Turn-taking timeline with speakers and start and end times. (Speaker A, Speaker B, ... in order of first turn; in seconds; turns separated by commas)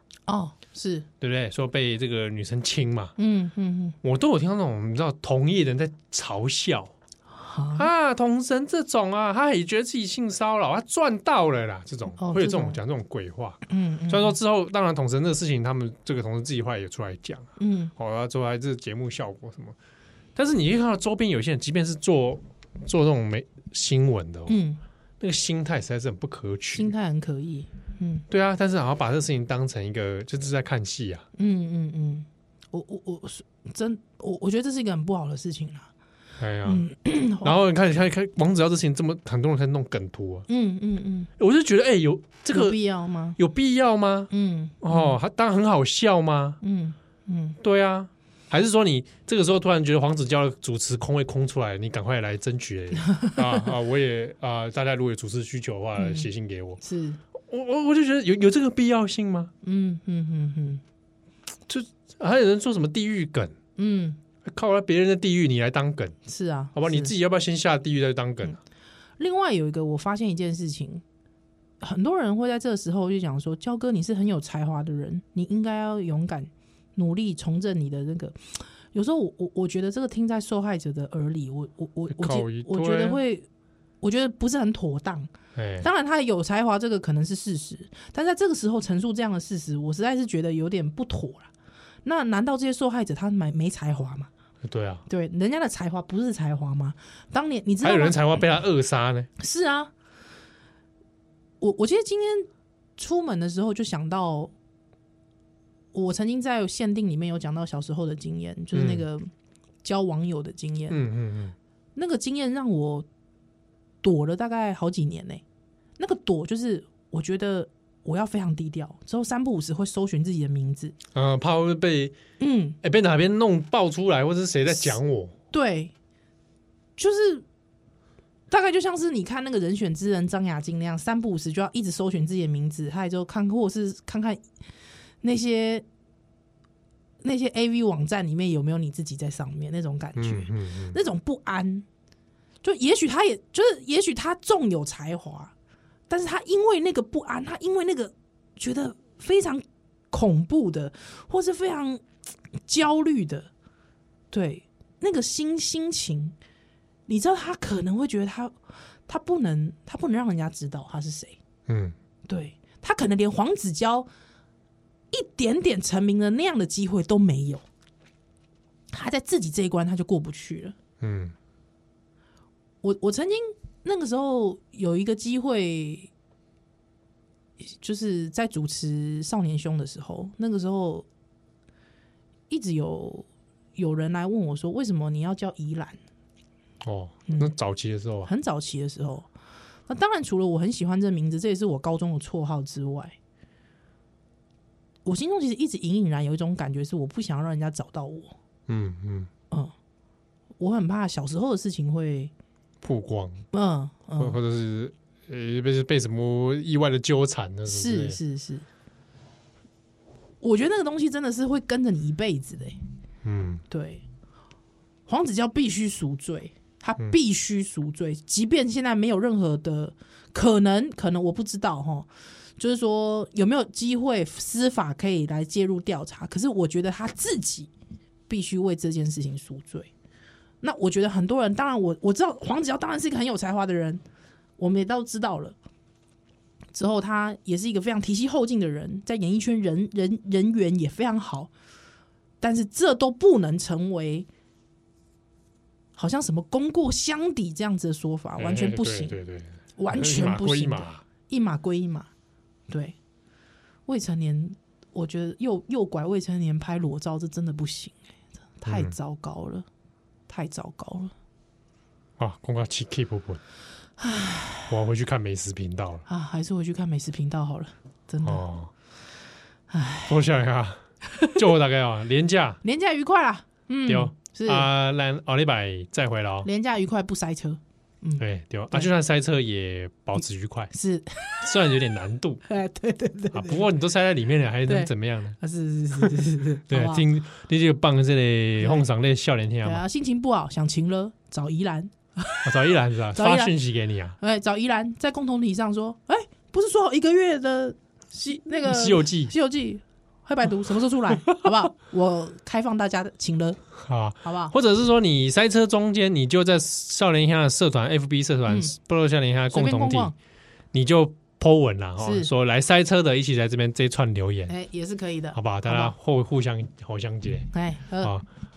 Speaker A: 0.3-1.1, Speaker B: 1.2-3.1, Speaker A: 3.2-4.0, Speaker B: 4.0-6.9, Speaker A: 7.3-7.9, Speaker B: 7.8-19.8, Speaker A: 12.2-12.8, Speaker A: 13.7-14.4, Speaker A: 17.6-17.9, Speaker B: 20.3-24.6, Speaker A: 24.5-24.8, Speaker B: 25.2-26.9, Speaker A: 26.7-28.2, Speaker B: 28.3-31.2, Speaker A: 31.4-35.9, Speaker B: 36.4-36.9, Speaker A: 36.6-37.5, Speaker B: 37.4-40.5, Speaker A: 40.5-41.3, Speaker B: 41.4-42.8, Speaker A: 42.5-43.4, Speaker B: 43.4-46.6, Speaker A: 44.3-45.2, Speaker A: 46.6-47.6, Speaker B: 47.6-56.8, Speaker A: 53.1-53.6, Speaker A: 56.0-56.3, Speaker A: 56.8-57.2, Speaker B: 57.4-59.5, Speaker A: 59.6-60.8, Speaker B: 61.7-63.5, Speaker A: 63.8-64.2, Speaker B: 64.4-66.2, Speaker A: 66.3-67.1, Speaker B: 66.7-68.6, Speaker A: 69.2-71.0, Speaker A: 71.8-83.5, Speaker B: 82.1-83.2, Speaker A: 84.0-91.5, Speaker B: 85.5-85.9, Speaker A: 92.0-94.3, Speaker B: 94.6-95.0, Speaker A: 95.1-98.2, Speaker B: 97.8-99.3, Speaker A: 99.4-99.9, Speaker A: 101.6-104.5, Speaker A: 105.9-109.3, Speaker B: 108.7-109.0, Speaker A: 109.8-111.0, Speaker B: 110.9-111.5, Speaker A: 112.0-113.0, Speaker A: 114.0-115.4, Speaker A: 116.0-121.0, Speaker B: 121.1-122.2, Speaker A: 122.4-122.8, Speaker B: 122.8-125.3, Speaker A: 125.5-125.9, Speaker A: 127.0-127.4, Speaker A: 128.5-134.4, Speaker A: 135.2-135.8, Speaker A: 137.2-141.8, Speaker B: 140.2-141.0, Speaker A: 142.6-145.5, Speaker A: 146.1-152.0, Speaker A: 152.6-153.5, Speaker A: 154.3-156.3, Speaker A: 157.1-158.5, Speaker A: 159.1-161.4, Speaker B: 161.7-161.9, Speaker A: 162.3-164.1, Speaker A: 165.1-167.6, Speaker A: 168.9-170.8, Speaker B: 171.0-171.3, Speaker A: 172.8-176.1, Speaker A: 177.6-181.1, Speaker A: 182.5-186.0, Speaker B: 186.8-188.3, Speaker A: 187.3-187.5, Speaker A: 188.2-189.3, Speaker A: 189.9-193.1, Speaker A: 195.0-198.3, Speaker B: 198.7-199.3, Speaker A: 200.6-202.3, Speaker B: 202.8-203.4, Speaker A: 203.5-204.4, Speaker B: 204.2-208.2, Speaker A: 207.7-208.7, Speaker A: 210.4-212.8, Speaker B: 213.2-213.6, Speaker A: 213.7-214.0, Speaker A: 215.1-227.7, Speaker A: 228.3-229.9, Speaker A: 230.6-234.0, Speaker A: 234.6-235.6, Speaker A: 236.7-241.5, Speaker A: 242.4-244.3, Speaker A: 245.9-249.2, Speaker B: 248.4-251.0, Speaker A: 249.8-252.1, Speaker A: 252.7-252.9, Speaker A: 253.9-258.0, Speaker A: 258.6-259.6, Speaker B: 258.6-258.9, Speaker A: 260.3-261.1, Speaker B: 262.2-263.4, Speaker A: 264.0-264.7, Speaker B: 264.7-266.1, Speaker A: 266.1-268.4, Speaker B: 268.2-268.7, Speaker A: 269.7-270.1, Speaker B: 270.1-272.6, Speaker A: 272.6-274.7, Speaker B: 273.9-276.5, Speaker A: 276.4-278.9, Speaker B: 278.2-280.7, Speaker A: 280.7-281.2, Speaker B: 281.4-282.4, Speaker A: 282.4-283.6, Speaker B: 283.3-285.4, Speaker A: 284.6-287.0, Speaker B: 286.7-289.8, Speaker A: 288.6-288.8, Speaker A: 289.6-292.5, Speaker B: 292.4-294.2, Speaker A: 293.1-293.6, Speaker A: 294.2-303.6, Speaker B: 298.6-299.3, Speaker B: 303.8-310.1, Speaker A: 304.2-304.5, Speaker A: 308.5-308.8, Speaker A: 309.5-310.1, Speaker B: 310.7-314.5, Speaker A: 312.0-312.3, Speaker A: 314.5-315.9, Speaker B: 315.3-318.2, Speaker A: 317.5-318.1